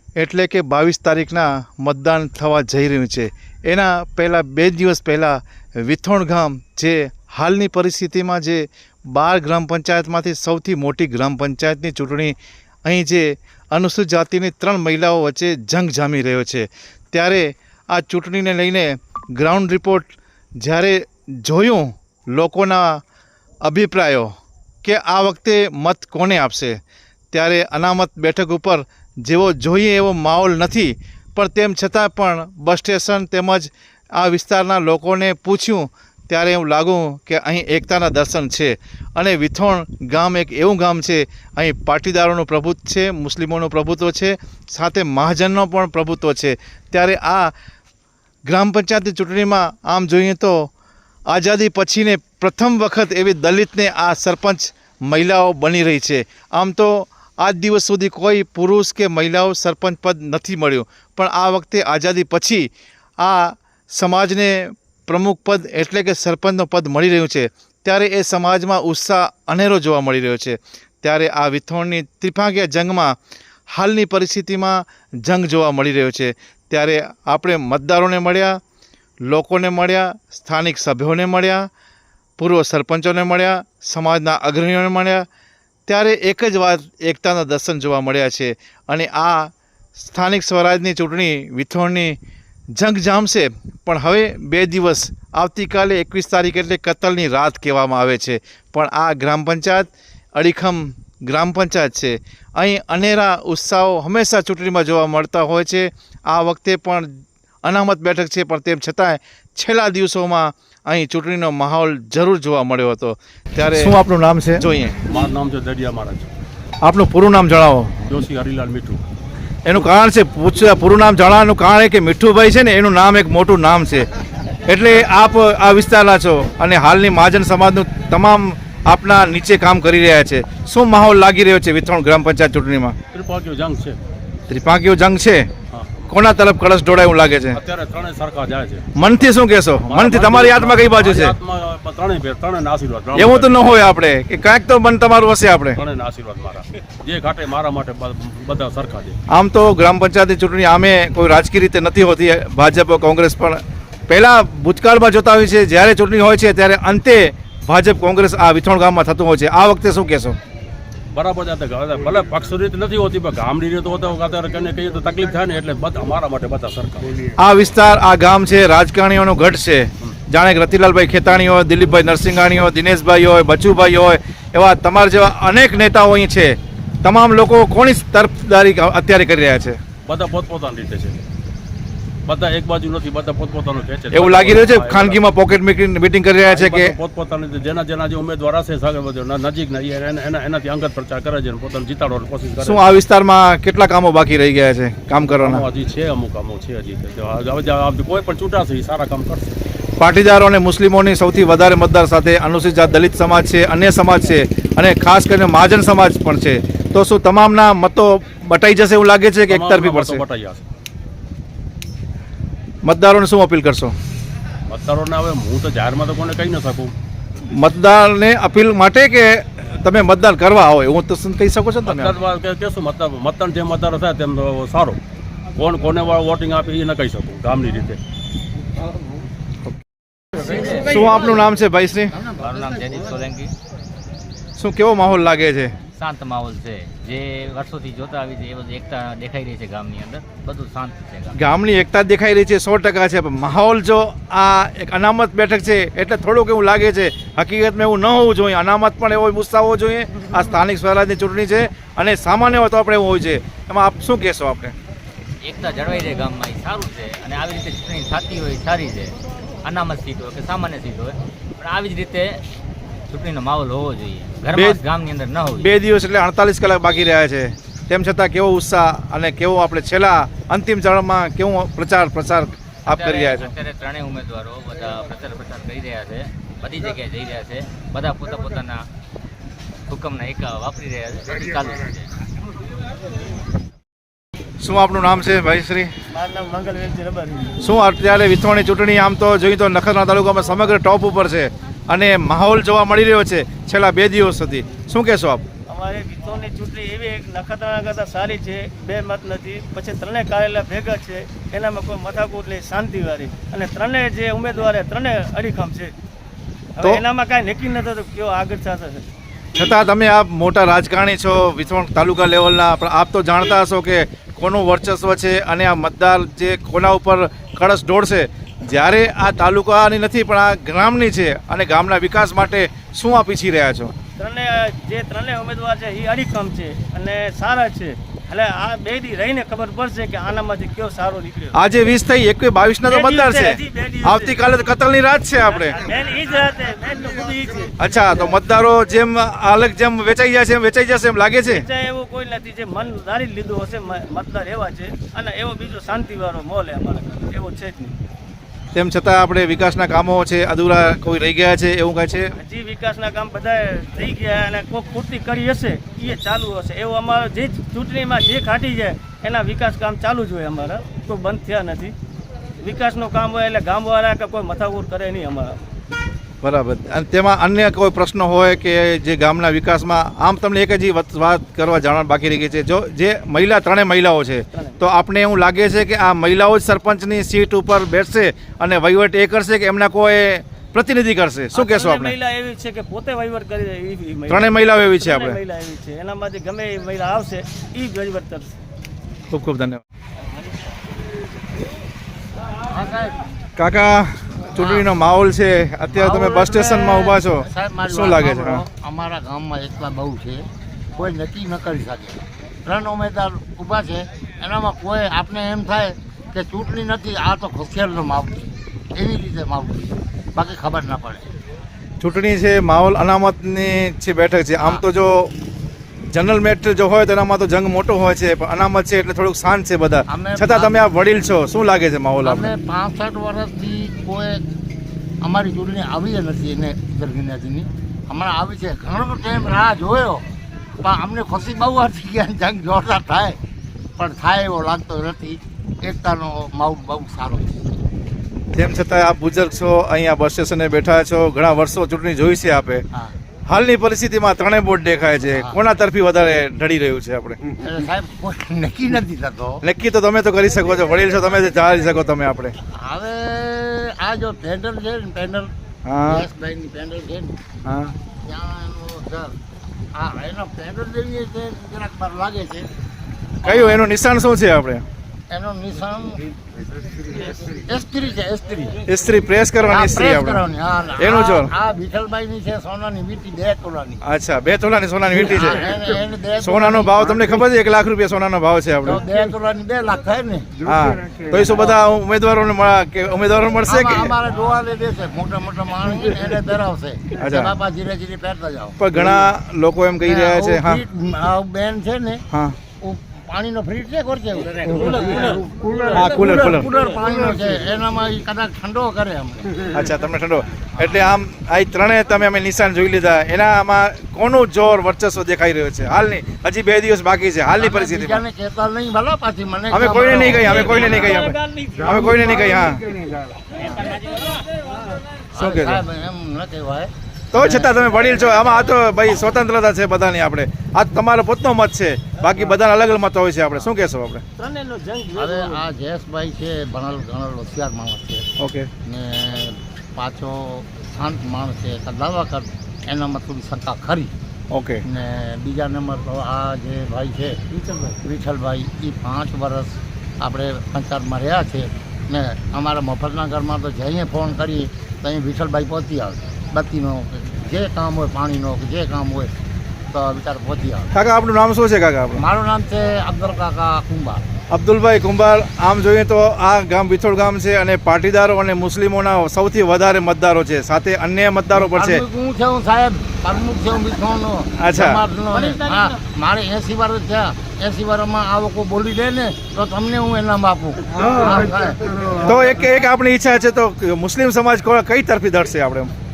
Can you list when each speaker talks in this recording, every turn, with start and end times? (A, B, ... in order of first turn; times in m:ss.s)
0:00.2-0:23.0 A
0:23.6-0:24.3 A
0:24.8-0:26.8 A
0:27.3-0:47.5 A
0:48.5-0:50.7 A
0:51.3-1:13.2 A
1:13.7-1:18.6 A
1:19.2-1:21.7 A
1:22.4-1:25.3 A
1:25.9-1:32.2 A
1:32.8-1:47.1 A
1:47.6-1:55.0 A
1:55.1-1:56.3 B
1:56.8-1:58.1 A
1:58.1-1:59.0 B
1:59.6-2:04.1 A
2:04.7-2:13.0 A
2:13.1-2:14.0 B
2:14.5-2:15.5 A
2:15.7-2:16.0 B
2:16.1-2:17.6 A
2:17.5-2:18.8 B
2:19.0-2:21.4 A
2:19.8-2:23.7 B
2:23.2-2:25.8 A
2:25.8-2:29.2 B
2:29.3-2:40.4 A
2:41.1-2:47.2 B
2:47.4-2:59.8 A
3:00.0-3:01.2 B
3:02.3-3:05.2 B
3:04.1-3:07.0 A
3:06.5-3:12.9 B
3:12.6-3:15.6 A
3:15.4-3:19.6 B
3:20.0-3:30.2 A
3:29.5-3:30.6 B
3:32.8-3:34.0 A
3:34.7-3:36.9 B
3:37.5-3:42.2 A
3:41.8-3:45.0 B
3:45.6-3:48.0 B
3:50.8-3:52.2 A
3:52.2-3:53.5 C
3:54.6-3:55.8 A
3:56.0-4:01.4 C
4:01.3-4:14.7 A
4:15.4-4:22.4 C
4:23.1-4:25.7 C
4:25.6-4:33.5 A
4:32.9-4:38.8 C
4:39.9-4:42.1 C
4:44.6-4:45.9 A
4:46.1-4:47.6 D
4:47.6-4:55.4 A
4:55.7-5:05.9 D
5:06.8-5:09.1 D
5:09.6-5:23.9 A
5:24.2-5:31.6 D
5:31.5-5:35.8 A
5:32.9-5:34.5 D
5:35.4-5:38.4 D
5:37.8-5:41.7 A
5:41.4-5:48.0 D
5:48.7-5:52.3 A
5:52.4-6:01.9 D
6:02.6-6:05.6 D
6:06.4-6:22.2 A
6:21.5-6:28.5 D
6:24.3-6:25.4 A
6:29.3-6:29.8 A
6:32.7-6:33.2 E
6:33.6-6:38.6 A
6:34.6-6:34.9 E
6:35.9-6:51.3 E
6:52.0-6:55.3 A
6:56.1-7:02.5 A
7:00.1-7:00.8 E
7:02.2-7:04.4 E
7:05.2-7:10.3 E
7:10.8-7:13.4 E
7:14.0-7:17.6 E
7:18.5-7:22.8 A
7:23.5-7:27.4 A
7:25.3-7:25.6 E
7:27.6-7:29.6 E
7:29.6-7:32.5 A
7:32.7-7:35.5 E
7:35.9-7:36.3 A
7:36.0-7:37.4 E
7:37.6-7:37.9 A
7:38.2-7:39.4 E
7:39.9-7:42.7 E
7:43.4-7:43.8 E
7:43.4-7:44.8 A
7:45.3-7:46.3 E
7:47.2-7:48.8 E
7:48.9-7:50.4 A
7:49.6-7:54.0 E
7:51.0-7:51.5 A
7:54.0-7:55.7 A
7:55.1-7:57.3 E
7:56.4-7:59.0 A
7:58.8-8:00.6 E
8:00.6-8:04.1 A
8:01.3-8:01.8 E
8:03.7-8:09.1 E
8:07.2-8:07.5 A
8:08.8-8:10.8 A
8:10.0-8:12.2 E
8:12.3-8:12.6 A
8:12.8-8:19.7 E
8:14.8-8:15.4 D
8:15.9-8:16.7 A
8:19.7-8:28.2 A
8:20.8-8:21.1 E
8:27.5-8:30.9 E
8:29.7-8:32.8 A
8:30.3-8:32.8 D
8:33.6-8:34.4 D
8:35.4-8:37.7 E
8:35.4-8:35.8 A
8:37.3-8:44.2 A
8:44.4-8:45.6 D
8:45.1-8:48.3 E
8:48.4-8:48.7 A
8:48.8-8:54.1 E
8:54.5-8:54.8 A
8:54.8-9:09.4 E
9:09.9-9:11.0 E
9:10.9-9:12.2 A
9:12.1-9:14.3 E
9:14.5-9:22.0 A
9:21.5-9:32.4 E
9:24.6-9:25.0 A
9:25.3-9:26.0 D
9:32.2-9:35.9 A